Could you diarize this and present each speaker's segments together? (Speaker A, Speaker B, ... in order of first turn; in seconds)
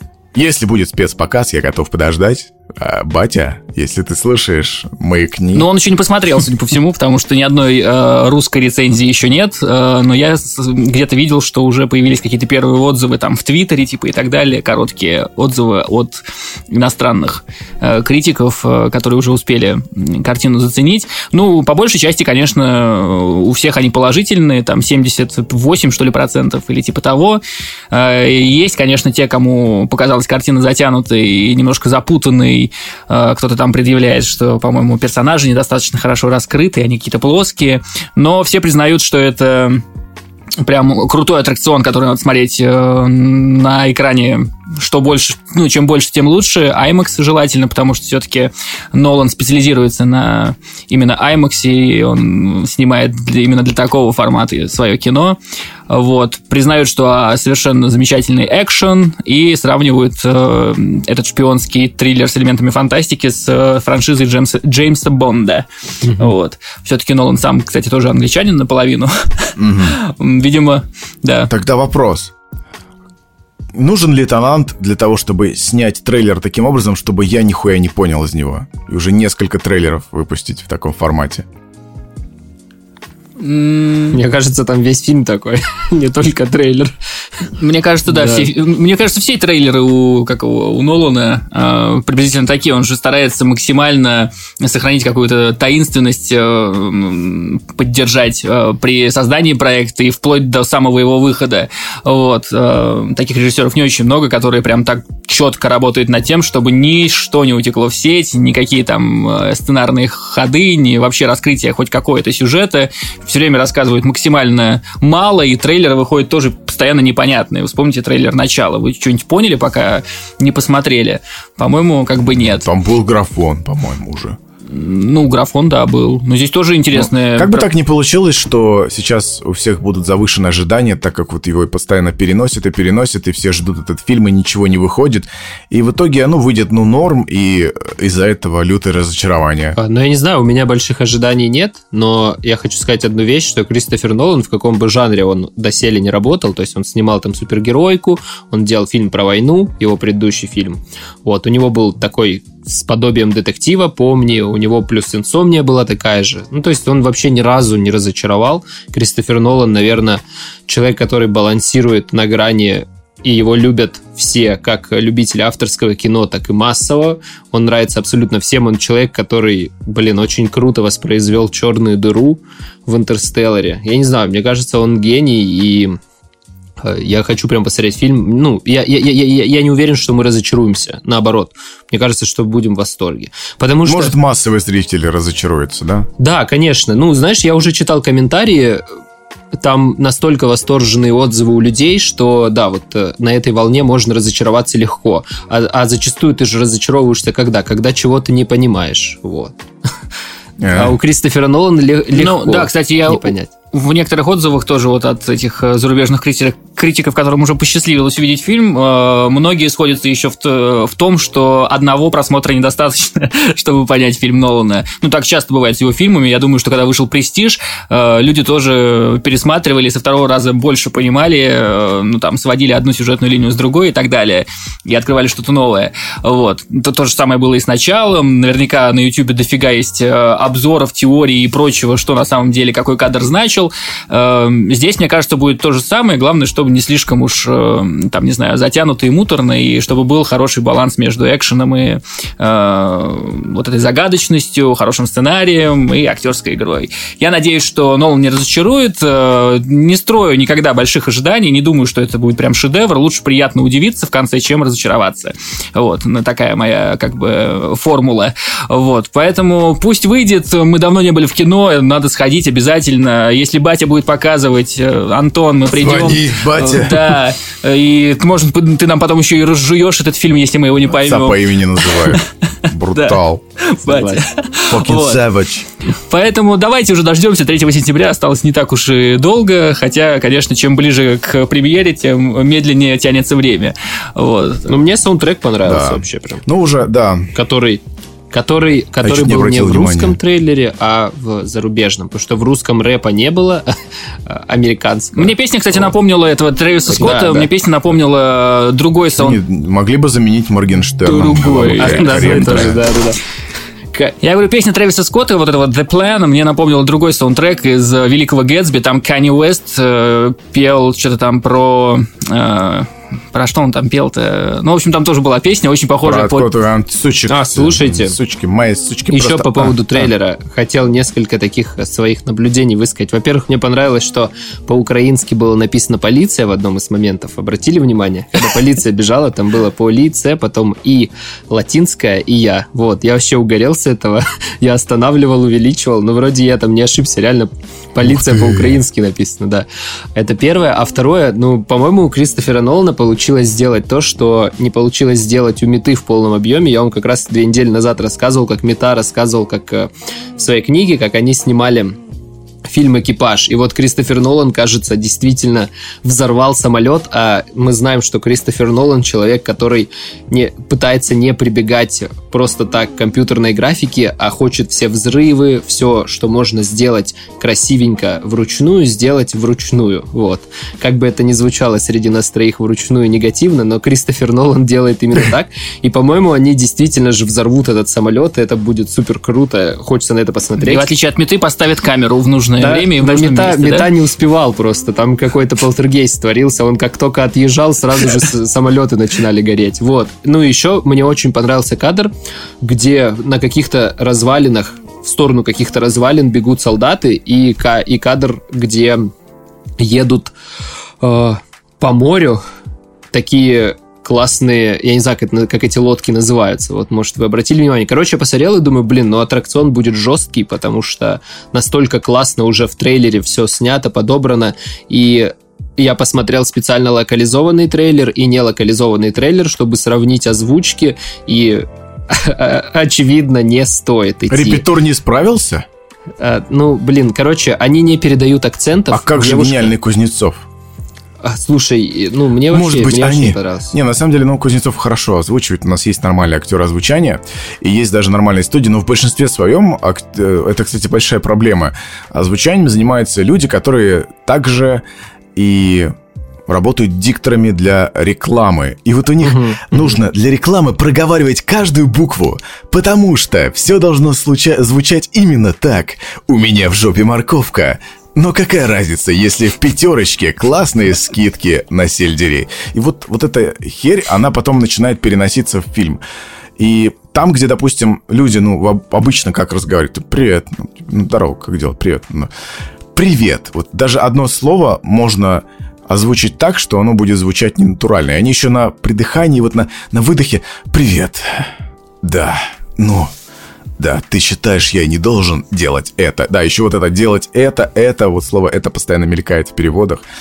Speaker A: 0.3-5.7, 69.6-70.0, 71.5-72.3, 73.7-81.5, 122.6-124.4, 126.9-139.8, 183.8-186.1, 200.6-201.0, 265.7-267.2, 270.9-273.4, 274.7-275.7, 285.6-287.3, 289.0-290.2, 299.2-302.8, 316.0-320.1, 424.3-425.6, 428.9-430.4, 432.5-444.8, 445.4-445.9, 446.5-466.0, 466.6-472.3, 472.9-483.1, 483.8-490.0
Speaker B: 5.5-39.8, 40.6-55.4, 55.9-71.5, 83.4-84.2, 87.5-122.7, 124.7-127.7, 202.1-275.2, 275.9-284.7, 295.1-299.4, 301.0-302.8, 304.2-316.5, 380.6-383.9
Speaker C: 66.0-66.3, 84.1-86.9, 88.1-88.5, 139.8-176.0, 176.8-184.1, 186.2-188.8, 189.5-199.6, 200.7-203.5, 273.9-274.2, 284.7-286.4, 287.4-293.7, 294.3-295.9, 296.9-297.5, 301.8-303.2, 317.3-318.1, 319.1-352.0, 352.6-380.9, 382.6-399.1, 399.8-400.3, 401.0-402.4, 403.1-424.6, 426.2-429.7, 431.2-433.7, 449.2-450.0